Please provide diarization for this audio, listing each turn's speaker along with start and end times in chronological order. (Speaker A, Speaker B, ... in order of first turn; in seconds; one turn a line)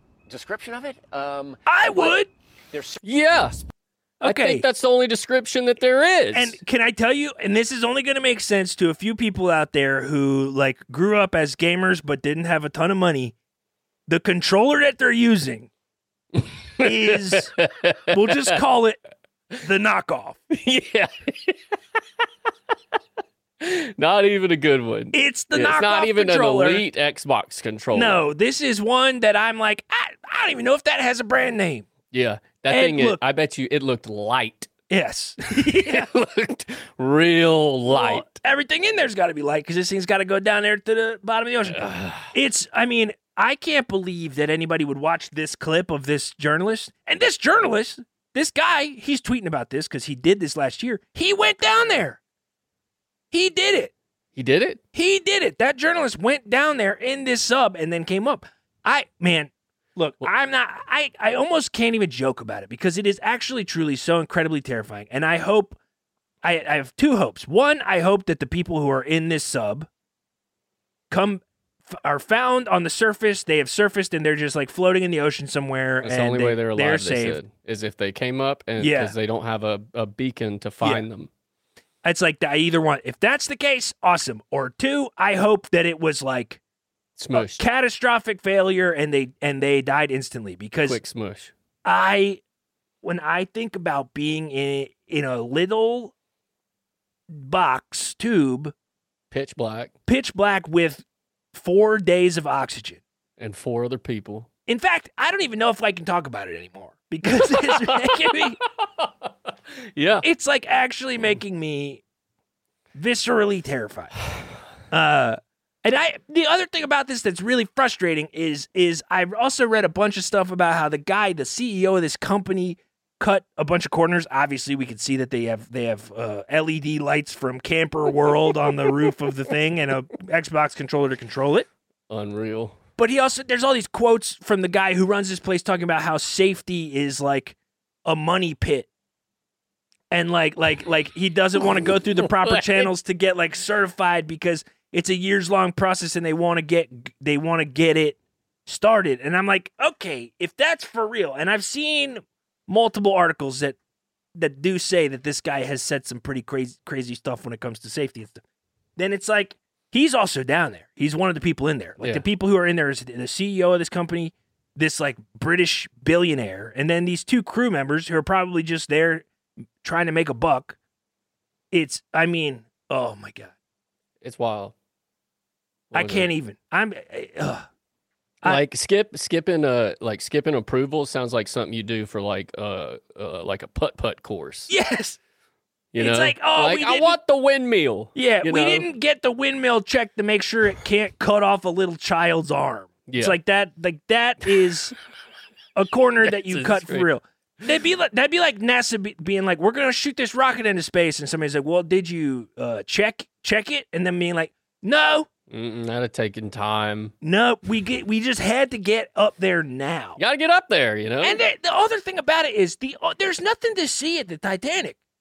Speaker A: 0.3-2.2
Speaker B: 1.7-2.3
Speaker A: 2.7-3.0
Speaker C: 3.0-3.6
Speaker B: 4.2-4.6
Speaker C: 4.2-6.6
Speaker B: 6.3-13.3
Speaker B: 14.1-15.7
Speaker C: 16.3-18.5
Speaker B: 16.8-17.5
Speaker B: 18.1-19.0
Speaker B: 19.6-20.4
Speaker C: 20.5-21.7
Speaker C: 23.6-28.2
Speaker B: 25.1-26.8
Speaker B: 27.9-31.9
Speaker C: 32.1-34.7
Speaker B: 32.7-33.2
Speaker B: 34.9-36.1
Speaker C: 35.6-38.3
Speaker B: 37.9-52.2
Speaker C: 41.6-42.3
Speaker B: 53.3-53.9
Speaker C: 54.4-54.8
Speaker B: 54.9-65.8
Speaker B: 66.4-69.9
Speaker B: 71.1-77.4
Speaker C: 76.0-81.3
Speaker B: 78.8-79.1
Speaker B: 82.0-86.6
Speaker C: 87.2-87.6
Speaker B: 87.3-91.0
Speaker C: 90.8-91.5
Speaker B: 91.8-92.4
Speaker B: 93.0-96.1
Speaker B: 97.3-98.7
Speaker C: 99.3-99.9
Speaker B: 100.1-103.0
Speaker C: 103.4-104.5
Speaker B: 104.7-108.6
Speaker C: 107.3-110.2
Speaker B: 110.2-112.0
Speaker B: 112.9-114.2
Speaker B: 114.9-131.7
Speaker C: 132.1-132.8
Speaker B: 133.0-138.9
Speaker B: 140.1-153.8
Speaker C: 141.6-142.9
Speaker B: 154.3-158.4
Speaker B: 159.0-169.2
Speaker B: 169.8-170.8
Speaker B: 171.7-173.5
Speaker C: 174.2-174.7
Speaker C: 175.9-176.3
Speaker B: 175.9-177.7
Speaker C: 178.4-184.7
Speaker B: 184.7-185.2
Speaker C: 185.9-188.9
Speaker B: 185.9-187.2
Speaker B: 188.1-194.9
Speaker C: 193.1-193.4
Speaker B: 195.8-205.3
Speaker C: 196.2-197.1
Speaker C: 205.5-207.1
Speaker B: 207.2-210.2
Speaker C: 210.2-211.4
Speaker B: 211.2-215.0